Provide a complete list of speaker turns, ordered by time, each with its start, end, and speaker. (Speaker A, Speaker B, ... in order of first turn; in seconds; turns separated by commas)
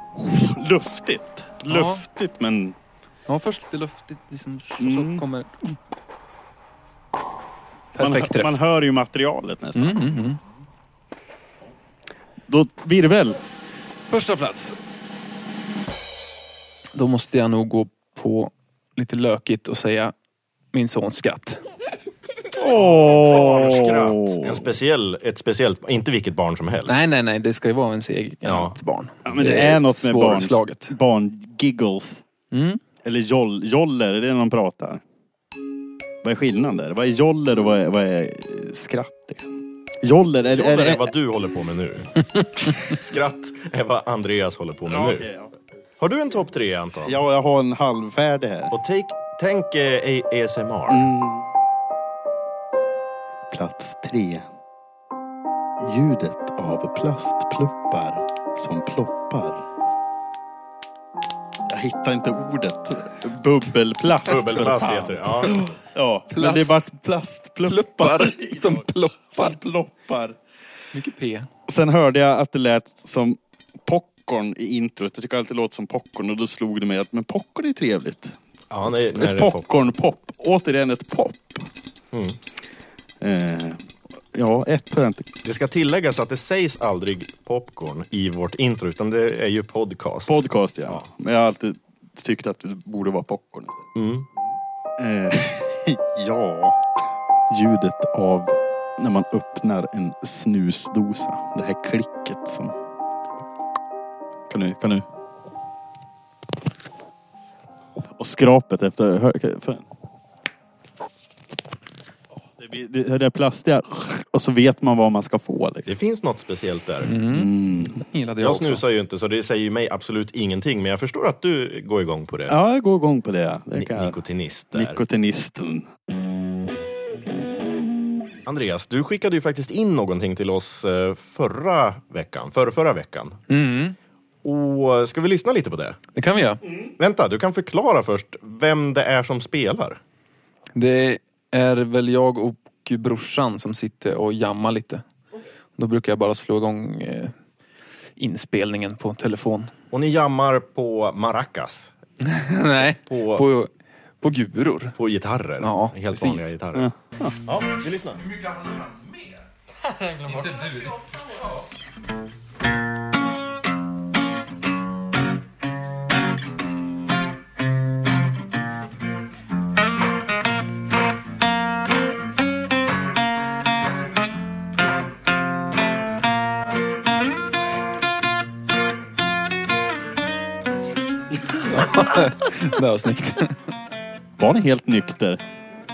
Speaker A: 0.2-2.8, Speaker B: 1.7-2.0, Speaker B: 3.3-5.7, Speaker A: 4.8-5.2, Speaker B: 8.0-8.6, Speaker A: 8.0-10.1, Speaker B: 9.8-10.4, Speaker A: 12.5-13.4, Speaker B: 14.1-14.8, Speaker B: 16.9-20.1, Speaker B: 20.7-21.6, Speaker A: 22.6-24.6, Speaker C: 22.9-27.0, Speaker B: 26.9-30.9, Speaker C: 28.4-28.8, Speaker A: 29.2-32.2, Speaker B: 32.5-32.8, Speaker A: 33.0-35.0, Speaker A: 36.2-41.1, Speaker C: 40.5-45.3, Speaker A: 44.9-45.5, Speaker C: 46.0-47.2, Speaker A: 47.0-48.7, Speaker C: 48.7-51.1, Speaker A: 50.9-51.5, Speaker A: 53.5-54.5, Speaker A: 55.8-59.6, Speaker A: 61.7-70.4, Speaker C: 64.3-65.7, Speaker B: 66.3-66.8, Speaker B: 67.7-69.6, Speaker B: 70.9-71.5, Speaker A: 71.7-78.3, Speaker C: 78.7-79.7, Speaker A: 79.1-81.7, Speaker C: 82.1-82.4, Speaker A: 83.2-85.3, Speaker C: 85.4-90.4, Speaker A: 90.3-93.9, Speaker C: 94.0-94.3, Speaker A: 95.0-96.8, Speaker A: 97.5-102.8, Speaker A: 104.5-105.0, Speaker A: 108.2-109.9, Speaker A: 112.6-115.9, Speaker C: 115.9-117.1, Speaker B: 117.0-118.8, Speaker A: 117.3-118.0, Speaker C: 118.4-122.5, Speaker A: 122.5-124.2, Speaker C: 123.8-125.0, Speaker A: 124.7-125.9, Speaker C: 128.5-133.4, Speaker B: 133.5-134.0, Speaker C: 134.4-136.0, Speaker B: 136.2-136.6, Speaker C: 137.0-140.0, Speaker B: 140.8-145.0, Speaker B: 145.8-147.3, Speaker B: 148.2-149.7, Speaker C: 149.9-151.9, Speaker B: 152.2-153.7, Speaker C: 153.0-153.4, Speaker B: 154.2-154.9, Speaker C: 155.0-156.9, Speaker B: 155.6-156.5, Speaker A: 156.8-157.3, Speaker C: 157.5-158.2, Speaker B: 158.4-159.2, Speaker B: 160.0-161.0, Speaker B: 181.5-183.6, Speaker A: 184.4-185.4